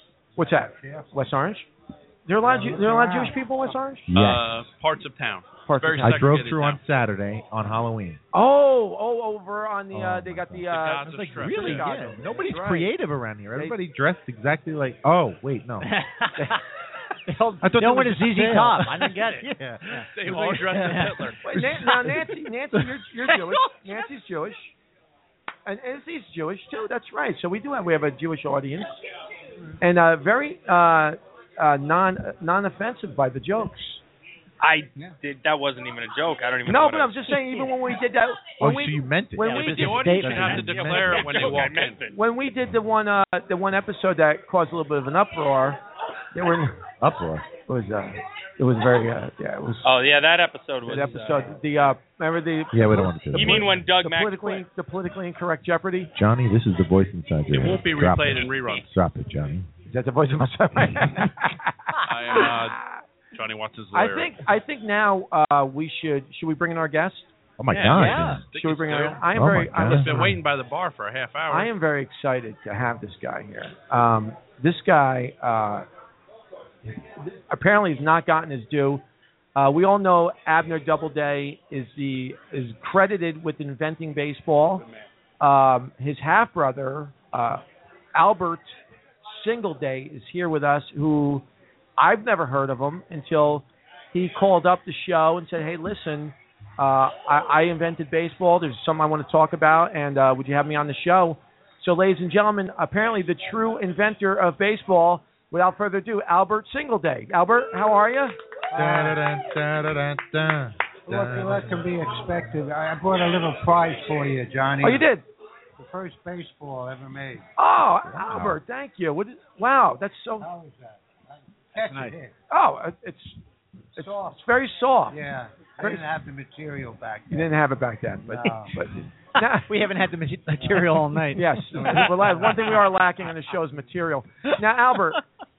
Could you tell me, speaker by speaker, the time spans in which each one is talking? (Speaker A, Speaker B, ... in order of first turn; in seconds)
Speaker A: 0.4-1.3, 2.4-3.4, 108.7-109.2, 111.1-115.1, 115.8-117.5, 120.4-122.3, 124.0-124.4, 125.1-127.6, 128.2-128.9, 130.6-131.0, 131.8-132.6
Speaker B: 0.4-1.7, 2.3-4.1, 5.7-6.2, 8.3-12.9, 21.4-24.7, 25.7-28.9, 29.8-34.0, 36.7-40.2, 42.1-45.8, 46.3-46.8, 47.7-49.9, 50.9-56.1, 59.9-63.0, 63.9-67.3, 68.5-70.2, 71.5-75.9, 77.2-79.0, 79.6-84.8, 85.4-87.6, 88.2-88.7, 89.2-91.4, 92.0-108.4, 114.8-115.2, 117.6-120.5, 122.5-123.4, 124.0-125.2, 125.8-126.0, 127.3-129.7, 131.3-135.2
Speaker C: 4.1-4.6, 6.0-8.2, 9.9-15.9, 17.6-22.8, 38.6-41.2, 47.0-47.5, 52.7-53.9, 56.1-59.7, 60.7-61.2, 67.6-68.5, 69.3-70.4, 108.7-111.8, 118.1-118.6
Speaker D: 4.1-6.8, 10.7-12.1, 20.1-21.4, 39.5-42.0, 57.5-58.9, 62.0-64.4, 67.8-71.7
Speaker E: 15.8-16.6, 17.3-21.4, 39.4-41.0, 67.9-68.4, 121.8-122.2, 129.6-132.1
Speaker F: 34.6-37.7, 40.7-42.1, 49.8-51.6, 53.3-54.6